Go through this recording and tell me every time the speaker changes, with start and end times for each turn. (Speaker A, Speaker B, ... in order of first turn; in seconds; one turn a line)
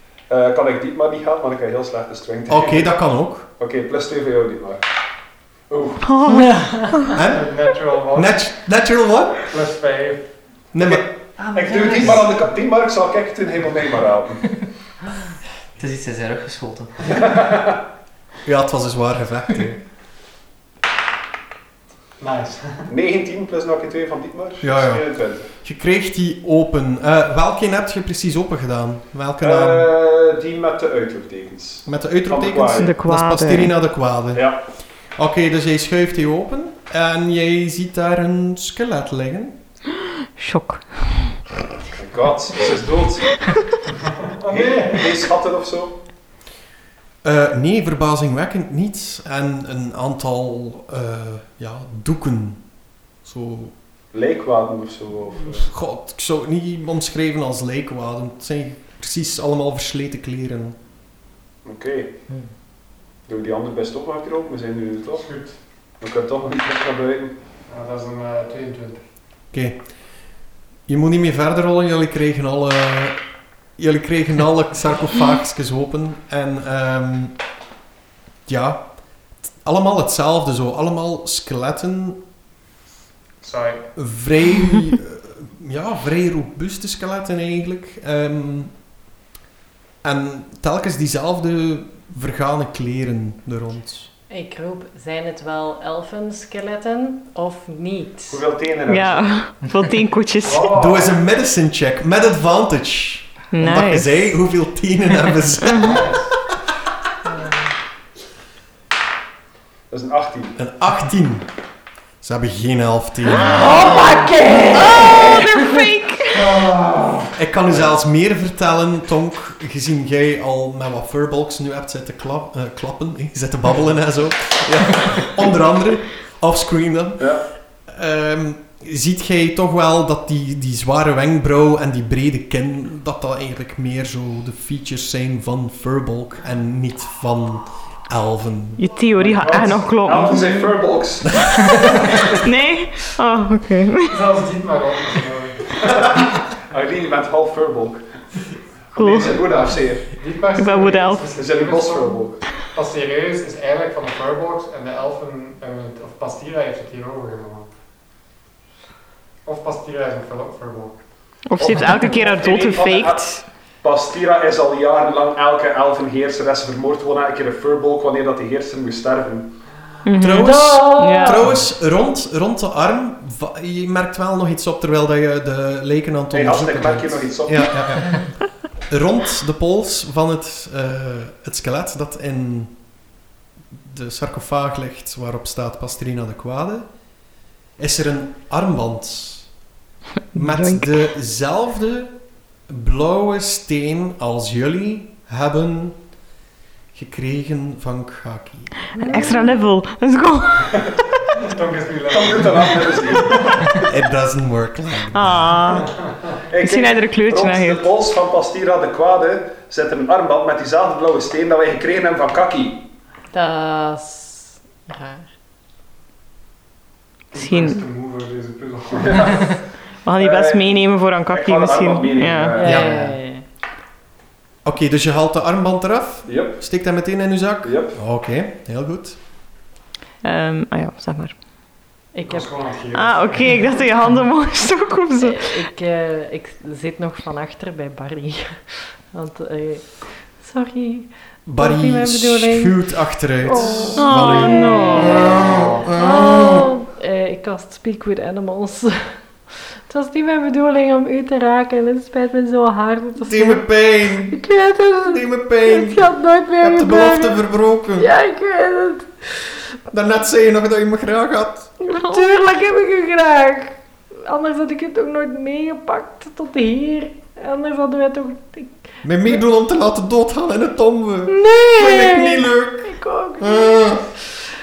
Speaker A: 0.3-4.8
Speaker B: 2.5-3.5
Speaker A: 5.7-6.1
Speaker C: 6.0-7.1
Speaker D: 6.5-6.8
Speaker B: 7.1-7.5
Speaker E: 7.2-8.5
Speaker B: 8.1-9.5
Speaker E: 9.5-10.3
Speaker B: 10.7-11.1
Speaker F: 11.4-12.4
Speaker A: 11.5-14.5
Speaker F: 15.8-16.9
Speaker A: 17.0-17.8
Speaker B: 18.4-19.8
Speaker E: 22.2-22.9
Speaker A: 22.9-25.5
Speaker B: 24.6-29.9
Speaker A: 29.4-32.9
Speaker B: 31.9-34.5
Speaker C: 32.8-33.7
Speaker A: 34.3-34.6
Speaker B: 35.1-39.6
Speaker C: 40.4-41.2
Speaker A: 41.9-43.4
Speaker E: 44.3-45.2
Speaker A: 44.5-46.0
Speaker B: 47.2-52.6
Speaker B: 53.2-53.7
Speaker A: 54.1-55.7
Speaker B: 55.5-60.8
Speaker A: 61.6-62.1
Speaker A: 63.2-65.3
Speaker E: 65.1-65.6
Speaker A: 66.0-67.3
Speaker E: 67.7-69.0
Speaker B: 69.5-70.0
Speaker B: 70.8-73.2
Speaker B: 73.8-77.3
Speaker B: 78.5-82.2
Speaker E: 83.4-83.9
Speaker B: 83.9-88.7
Speaker B: 90.0-94.1
Speaker D: 94.3-98.4
Speaker A: 98.3-99.4
Speaker C: 98.9-100.7
Speaker E: 100.4-101.2
Speaker B: 100.7-106.1
Speaker C: 103.5-104.4
Speaker C: 105.6-106.0
Speaker E: 105.8-106.2
Speaker A: 109.9-110.6
Speaker B: 110.5-111.5
Speaker B: 112.2-113.8
Speaker D: 113.6-114.8
Speaker C: 114.7-116.5
Speaker E: 116.4-117.3
Speaker B: 117.3-127.3
Speaker A: 117.7-117.9
Speaker A: 127.2-127.5
Speaker B: 127.9-138.9
Speaker C: 138.8-140.7
Speaker E: 139.2-140.2
Speaker A: 140.0-142.3
Speaker B: 141.2-141.9
Speaker C: 142.3-144.2
Speaker E: 144.1-146.2
Speaker A: 146.7-148.0
Speaker A: 148.9-150.1
Speaker C: 148.9-149.6
Speaker E: 149.1-157.7
Speaker C: 150.6-151.3
Speaker A: 151.3-152.5
Speaker E: 159.4-161.0
Speaker C: 161.5-163.4
Speaker A: 161.6-169.5
Speaker C: 170.0-171.5
Speaker B: 170.2-182.8
Speaker D: 170.4-171.5
Speaker A: 176.3-178.2
Speaker B: 183.7-186.9
Speaker B: 187.8-189.5
Speaker B: 190.3-196.0
Speaker C: 190.3-190.9
Speaker B: 196.9-198.9
Speaker D: 199.0-199.6
Speaker C: 199.0-200.9
Speaker E: 201.4-203.8
Speaker A: 202.1-203.3
Speaker B: 203.9-205.6
Speaker C: 205.1-205.9
Speaker E: 205.8-206.3
Speaker A: 206.5-212.9
Speaker C: 206.6-207.9
Speaker D: 213.3-215.3
Speaker E: 217.3-219.6
Speaker C: 217.3-217.8
Speaker A: 219.0-219.4
Speaker C: 220.0-222.6
Speaker A: 220.2-222.8
Speaker D: 222.5-223.4
Speaker F: 222.6-223.2
Speaker B: 224.6-229.2
Speaker A: 226.3-226.6
Speaker A: 227.6-228.0
Speaker C: 230.2-231.4
Speaker D: 232.1-232.5
Speaker E: 232.2-233.8
Speaker C: 232.9-235.7
Speaker D: 235.2-242.8
Speaker B: 241.4-246.7
Speaker D: 243.4-259.5
Speaker C: 243.9-245.3
Speaker F: 245.4-245.9
Speaker B: 253.2-254.4
Speaker B: 255.1-258.1
Speaker B: 259.9-261.8
Speaker D: 261.8-269.4
Speaker B: 269.0-274.1
Speaker D: 271.3-273.9